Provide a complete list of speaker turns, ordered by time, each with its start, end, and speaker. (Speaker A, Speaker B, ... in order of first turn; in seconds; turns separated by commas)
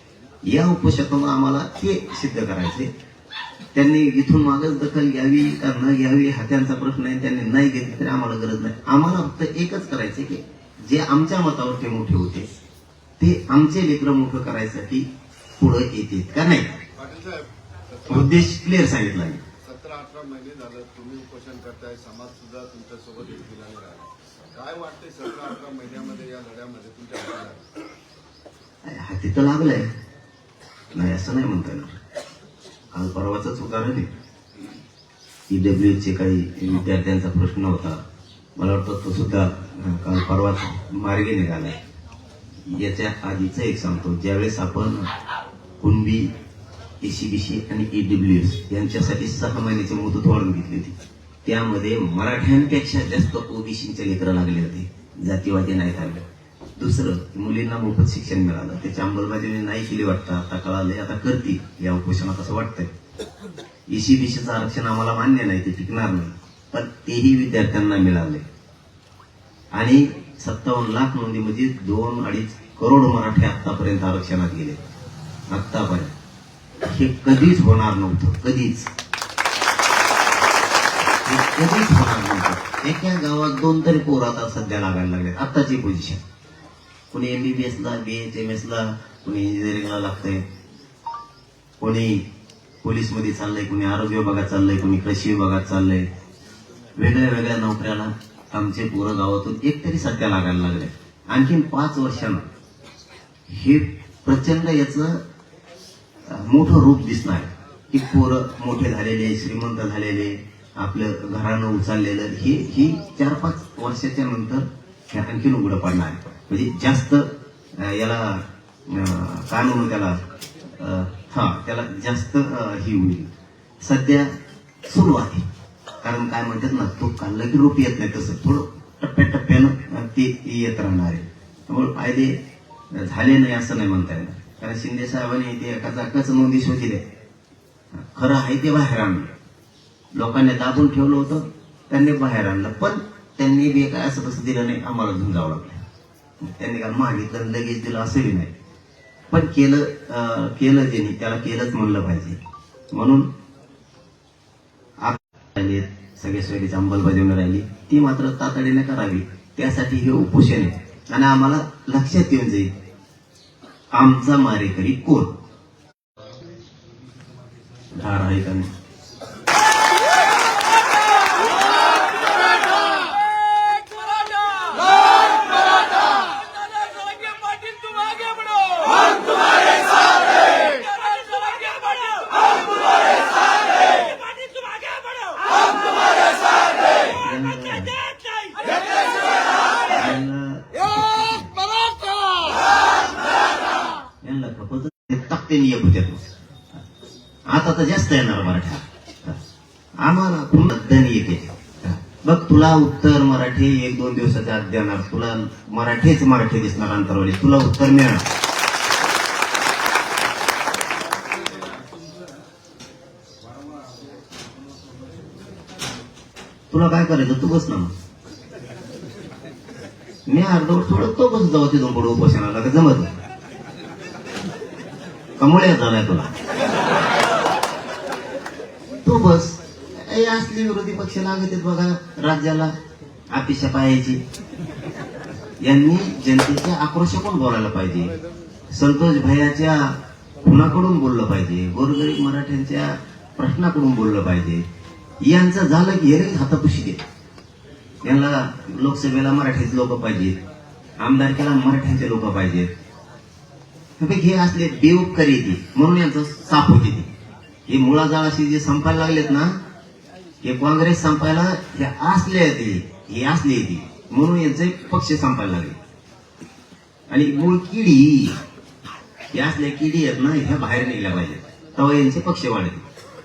Speaker A: 0.4-2.9, Speaker A: 3.7-12.5, Speaker A: 13.2-15.1, Speaker A: 15.6-16.7, Speaker B: 16.9-18.5, Speaker A: 18.1-19.4, Speaker B: 19.6-27.7, Speaker A: 28.8-29.9, Speaker A: 30.9-32.0, Speaker A: 32.9-34.1, Speaker A: 35.5-38.0, Speaker A: 38.6-41.8, Speaker A: 42.6-45.1, Speaker A: 45.8-46.3, Speaker A: 47.0-56.2, Speaker A: 56.8-62.9, Speaker A: 63.9-68.5, Speaker A: 69.7-74.8, Speaker A: 75.5-76.1, Speaker A: 76.8-78.9, Speaker A: 81.2-86.2, Speaker A: 87.1-90.5, Speaker A: 91.8-92.2, Speaker A: 92.8-96.1, Speaker A: 97.0-102.5, Speaker A: 103.5-105.2, Speaker A: 106.2-124.3, Speaker A: 124.9-125.5, Speaker A: 126.0-132.4, Speaker A: 132.9-137.0, Speaker A: 137.9-139.3, Speaker A: 140.1-145.8, Speaker A: 146.4-148.5, Speaker A: 149.3-152.4, Speaker A: 152.9-153.3, Speaker A: 155.0-162.7, Speaker A: 163.9-165.4, Speaker C: 166.2-168.4, Speaker A: 167.9-168.7, Speaker C: 171.1-185.9, Speaker A: 187.0-188.0, Speaker A: 189.9-191.6, Speaker A: 194.2-196.2, Speaker A: 197.5-199.4, Speaker A: 200.0-208.3, Speaker C: 210.8-212.6, Speaker C: 213.4-216.0, Speaker A: 216.7-217.9, Speaker A: 220.3-223.1, Speaker A: 225.4-226.3, Speaker A: 229.0-232.7, Speaker A: 233.3-234.2, Speaker A: 235.6-238.1, Speaker A: 238.7-244.6, Speaker A: 245.2-247.0, Speaker A: 248.0-250.4, Speaker A: 251.0-252.7, Speaker A: 254.0-257.1, Speaker A: 257.7-259.6, Speaker A: 260.4-265.8, Speaker A: 267.1-268.4, Speaker A: 269.3-272.8